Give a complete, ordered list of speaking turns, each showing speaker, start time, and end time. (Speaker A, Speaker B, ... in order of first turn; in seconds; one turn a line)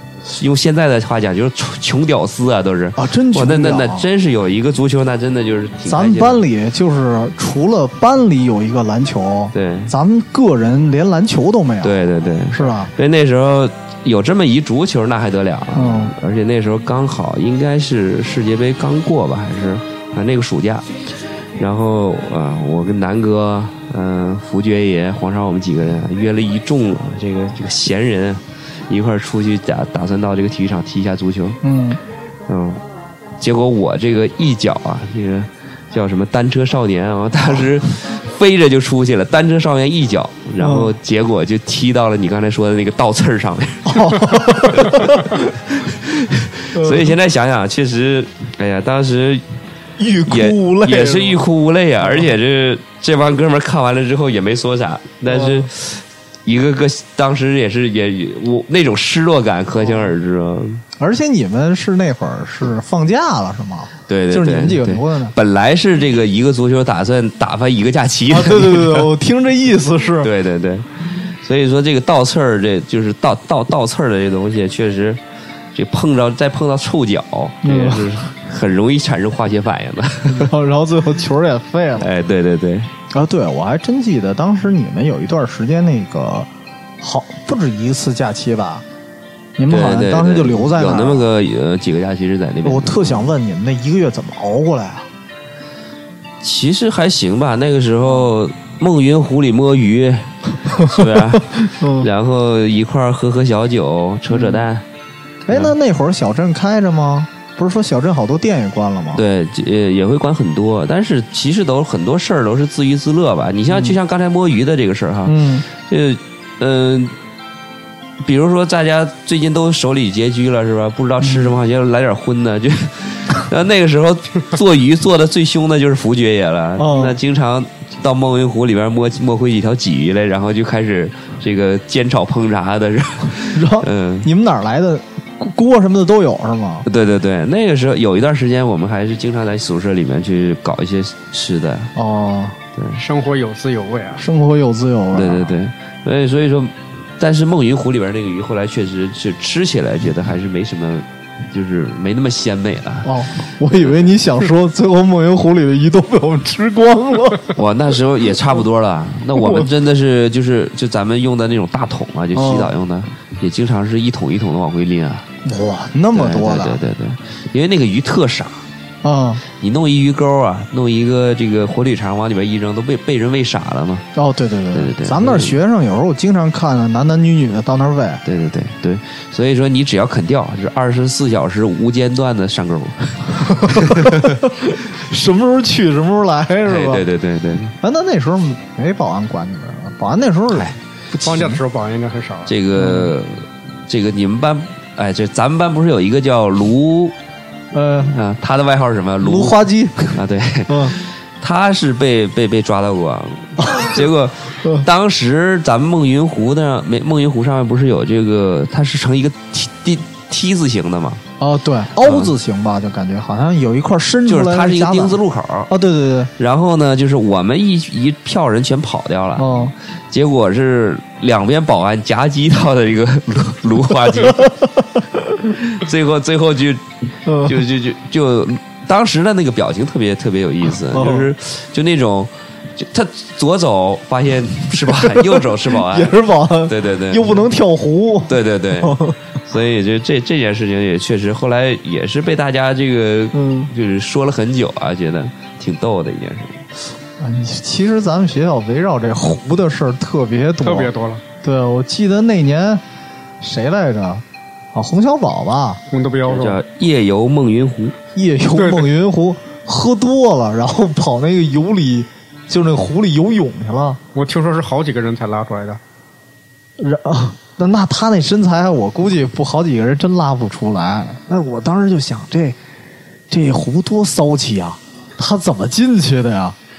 Speaker A: 0.3-6.4
Speaker B: 3.0-4.0
Speaker B: 5.9-12.0
Speaker A: 9.5-9.9
Speaker A: 11.8-20.9
Speaker B: 12.5-12.9
Speaker B: 15.7-16.1
Speaker A: 21.6-31.6
Speaker B: 31.6-32.0
Speaker A: 32.5-32.8
Speaker A: 33.4-49.4
Speaker B: 40.6-40.9
Speaker B: 43.9-45.3
Speaker B: 46.7-47.1
Speaker B: 50.0-51.4
Speaker A: 50.2-60.8
Speaker B: 52.0-52.3
Speaker B: 55.3-55.7
Speaker B: 61.0-65.4
Speaker A: 64.1-69.1
Speaker B: 68.3-70.3
Speaker A: 70.2-75.2
Speaker A: 75.7-80.5
Speaker B: 77.6-78.1
Speaker B: 80.3-82.1
Speaker A: 82.0-82.9
Speaker B: 83.1-88.8
Speaker B: 89.6-91.3
Speaker A: 89.7-93.3
Speaker B: 92.6-95.1
Speaker A: 96.4-104.8
Speaker B: 100.7-102.1
Speaker B: 104.3-104.7
Speaker B: 105.5-109.2
Speaker A: 109.1-117.2
Speaker B: 113.7-114.0
Speaker B: 115.3-115.7
Speaker A: 118.2-134.3
Speaker B: 121.2-121.5
Speaker B: 126.8-127.2
Speaker B: 133.5-136.9
Speaker A: 136.9-141.9
Speaker B: 141.9-142.6
Speaker A: 142.8-143.0
Speaker C: 143.0-144.2
Speaker B: 144.2-145.6
Speaker A: 145.1-153.1
Speaker B: 153.0-157.5
Speaker A: 153.7-154.1
Speaker A: 157.6-165.3
Speaker B: 159.4-159.7
Speaker B: 162.3-162.7
Speaker B: 165.4-166.8
Speaker A: 166.1-168.6
Speaker B: 169.0-169.4
Speaker A: 169.6-174.1
Speaker B: 174.1-178.2
Speaker A: 174.7-175.6
Speaker A: 178.2-184.4
Speaker B: 183.4-187.1
Speaker A: 186.6-187.7
Speaker B: 187.8-191.6
Speaker A: 190.5-190.8
Speaker C: 191.2-192.5
Speaker A: 192.5-197.1
Speaker B: 192.8-193.1
Speaker B: 197.7-198.2
Speaker A: 198.1-199.6
Speaker B: 199.2-200.9
Speaker A: 200.1-211.2
Speaker B: 203.6-204.0
Speaker B: 211.4-216.3
Speaker A: 212.0-212.3
Speaker A: 214.3-215.7
Speaker A: 216.4-219.5
Speaker B: 219.4-219.7
Speaker A: 220.1-224.5
Speaker B: 224.2-225.0
Speaker A: 225.5-226.9
Speaker B: 227.2-227.6
Speaker A: 227.4-237.5
Speaker B: 230.9-231.3
Speaker B: 234.7-239.2
Speaker A: 238.3-246.6
Speaker B: 243.3-243.7
Speaker B: 247.2-250.9
Speaker C: 250.6-251.2
Speaker B: 251.4-252.8
Speaker B: 253.4-255.8
Speaker C: 255.9-256.6
Speaker A: 256.3-257.9
Speaker B: 258.1-264.0
Speaker C: 258.6-258.9
Speaker C: 264.1-265.8
Speaker B: 266.8-272.6
Speaker B: 273.3-276.6